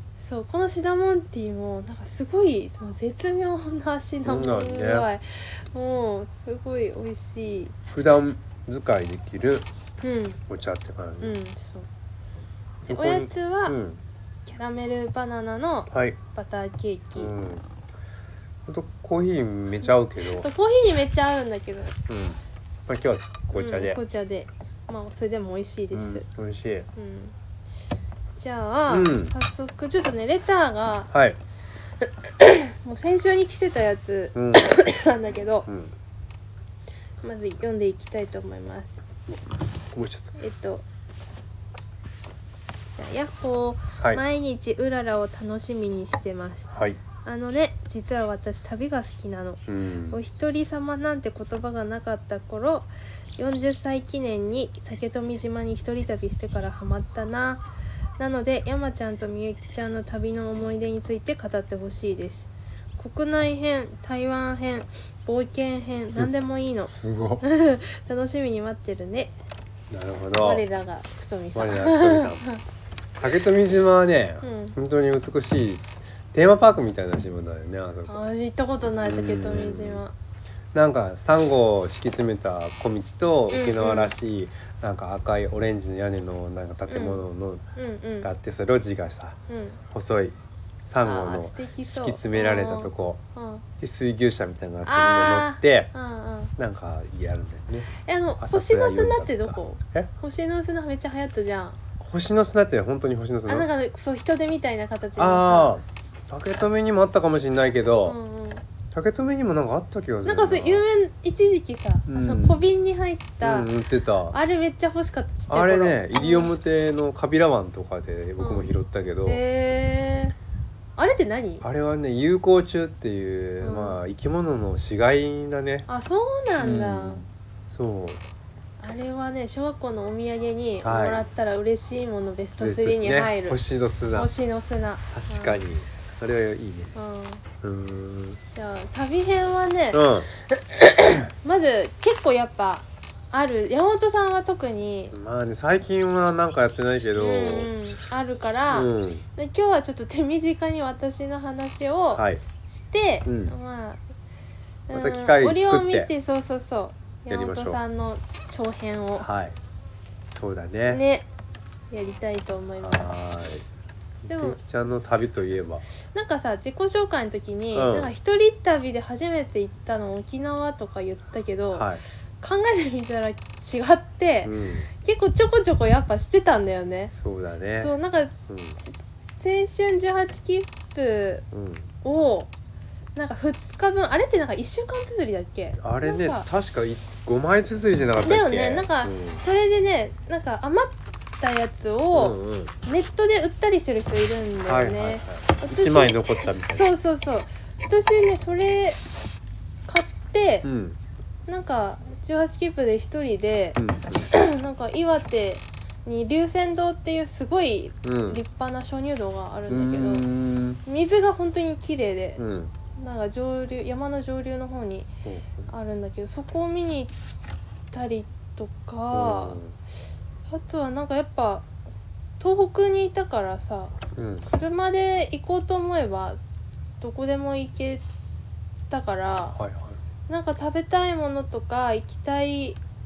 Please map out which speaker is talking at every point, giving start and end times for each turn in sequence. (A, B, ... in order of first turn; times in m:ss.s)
0:00.2-0:07.7 A
0:04.2-0:05.1 B
0:07.9-0:09.7 B
0:10.0-0:10.4 A
0:10.5-0:11.4 B
0:11.2-0:11.9 A
0:12.9-0:14.0 B
0:12.9-0:13.8 A
0:14.4-0:17.3 A
0:15.9-0:16.2 B
0:17.2-0:17.6 B
0:18.7-0:20.5 B
0:20.3-0:22.0 A
0:22.1-0:24.0 B
0:23.5-0:26.2 A
0:25.9-0:26.9 B
0:27.0-0:27.3 A
0:28.4-0:31.1 A
0:28.9-0:29.3 B
0:31.1-0:31.4 B
0:32.0-0:35.7 A
0:34.3-0:34.7 B
0:35.7-0:35.9 B
0:37.2-0:39.0 A
0:39.9-0:40.3 B
0:40.3-0:40.8 A
0:42.9-0:46.7 A
0:46.7-0:47.0 B
0:47.2-0:57.6 A
0:49.7-0:50.2 B
0:58.2-1:09.3 A
1:06.9-1:07.4 B
1:09.9-1:10.6 B
1:10.4-1:12.6 A
1:11.5-1:12.5 B
1:13.2-1:18.2 B
1:14.4-1:14.8 A
1:18.1-1:20.1 A
1:19.0-1:20.0 B
1:20.7-1:27.6 B
1:23.5-1:24.1 A
1:26.9-1:27.2 A
1:27.8-1:28.3 A
1:28.2-1:29.4 B
1:29.5-1:29.8 A
1:29.9-1:33.2 B
1:31.0-1:33.6 A
1:33.8-1:35.9 B
1:34.8-1:36.5 A
1:36.6-1:40.1 B
1:38.0-1:41.8 A
1:42.0-1:43.7 B
1:43.5-1:45.7 A
1:45.2-1:48.2 B
1:48.0-1:48.6 A
1:48.9-1:50.9 B
1:50.2-1:53.7 A
1:52.1-1:52.6 B
1:53.4-1:54.4 B
1:54.3-1:56.5 A
1:55.5-1:59.4 B
1:58.4-1:58.7 A
1:59.2-2:00.4 A
2:01.0-2:01.6 A
2:01.6-2:05.9 B
2:03.6-2:04.0 A
2:05.9-2:07.2 A
2:06.6-2:08.2 B
2:08.8-2:13.6 A
2:10.8-2:11.2 B
2:12.6-2:14.3 B
2:14.1-2:15.6 A
2:15.1-2:16.9 B
2:16.9-2:17.4 A
2:17.6-2:18.4 B
2:18.5-2:25.1 A
2:19.9-2:20.3 B
2:25.1-2:27.7 B
2:27.2-2:34.0 A
2:28.7-2:29.2 B
2:32.1-2:32.4 B
2:33.2-2:33.5 B
2:34.9-2:39.3 A
2:34.9-2:36.1 B
2:37.3-2:37.8 B
2:39.2-2:39.6 B
2:40.2-2:41.0 B
2:40.9-2:41.3 A
2:41.9-2:43.1 A
2:42.8-2:43.6 B
2:44.2-2:45.8 B
2:44.3-2:45.2 A
2:46.0-2:51.9 A
2:47.7-2:48.1 B
2:51.7-2:52.0 B
2:52.4-2:57.1 A
2:54.4-2:54.9 B
2:57.1-2:57.9 B
2:57.8-3:01.4 A
2:58.5-2:58.8 B
3:01.5-3:01.9 B
3:02.0-3:02.5 A
3:03.2-3:06.5 A
3:05.8-3:09.4 B
3:08.2-3:19.0 A
3:12.1-3:12.7 B
3:14.6-3:16.9 B
3:19.9-3:20.7 A
3:20.6-3:21.0 B
3:21.5-3:30.2 A
3:23.8-3:24.2 B
3:28.0-3:28.4 B
3:29.7-3:30.8 B
3:30.8-3:32.4 A
3:32.4-3:32.7 B
3:33.0-3:35.1 A
3:35.2-3:35.7 B
3:35.7-3:37.1 A
3:37.9-3:39.6 A
3:39.1-3:39.8 B
3:40.5-3:41.6 A
3:42.4-3:44.0 A
3:44.1-3:44.5 B
3:44.5-3:46.4 A
3:47.0-3:48.0 A
3:48.9-3:49.6 A
3:49.5-3:50.0 B
3:50.3-3:52.8 A